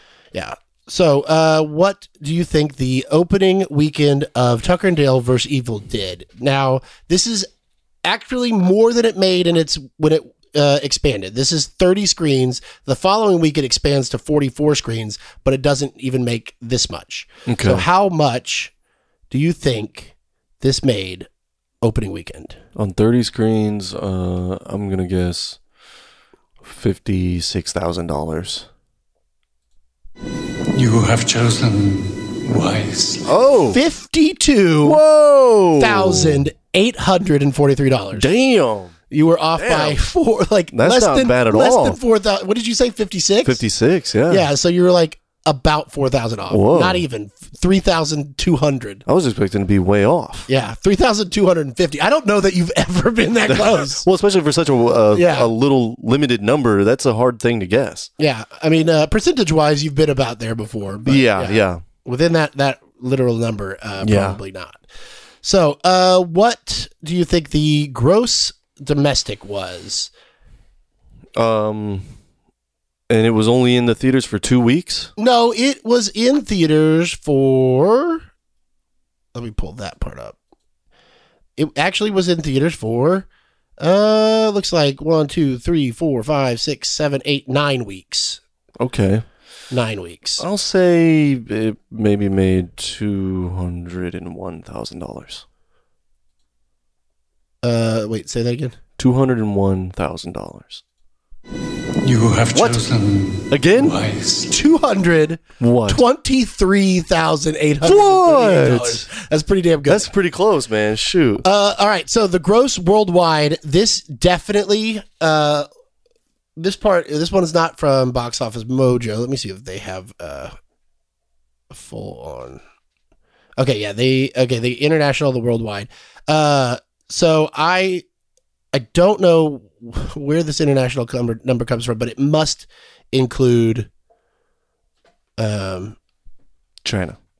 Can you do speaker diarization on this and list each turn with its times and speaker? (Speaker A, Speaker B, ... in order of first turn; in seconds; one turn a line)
Speaker A: 0.3-7.5
Speaker A: 8.0-18.7
Speaker B: 17.5-17.9
Speaker A: 19.3-21.3
Speaker A: 21.8-22.6
Speaker B: 22.8-25.6
Speaker B: 26.6-28.7
Speaker C: 30.7-33.3
Speaker B: 33.2-33.8
Speaker A: 33.7-35.0
Speaker B: 34.8-36.5
Speaker A: 35.8-38.3
Speaker B: 38.1-38.9
Speaker A: 39.1-43.6
Speaker B: 39.6-40.0
Speaker B: 40.7-42.0
Speaker B: 43.4-44.5
Speaker A: 44.3-49.0
Speaker B: 46.5-47.0
Speaker B: 49.1-50.5
Speaker A: 50.5-54.0
Speaker B: 53.5-58.1
Speaker A: 55.1-55.5
Speaker A: 58.2-64.8
Speaker B: 61.1-61.8
Speaker B: 64.0-64.4
Speaker A: 65.4-70.1
Speaker B: 71.4-72.1
Speaker B: 73.1-75.1
Speaker A: 75.2-78.2
Speaker A: 79.3-80.4
Speaker A: 81.6-83.3
Speaker A: 83.8-88.4
Speaker B: 88.8-89.2
Speaker A: 89.7-90.4
Speaker B: 90.4-95.4
Speaker A: 97.6-98.8
Speaker B: 99.0-100.8
Speaker C: 102.0-104.5
Speaker B: 102.5-102.8
Speaker B: 103.5-104.0
Speaker A: 104.5-110.1
Speaker B: 105.6-106.0
Speaker B: 107.8-109.1
Speaker B: 109.9-111.5
Speaker A: 111.4-115.7
Speaker A: 116.6-120.5
Speaker A: 121.7-122.6
Speaker A: 123.6-128.0
Speaker A: 128.7-133.9
Speaker A: 135.4-136.0
Speaker B: 136.8-137.2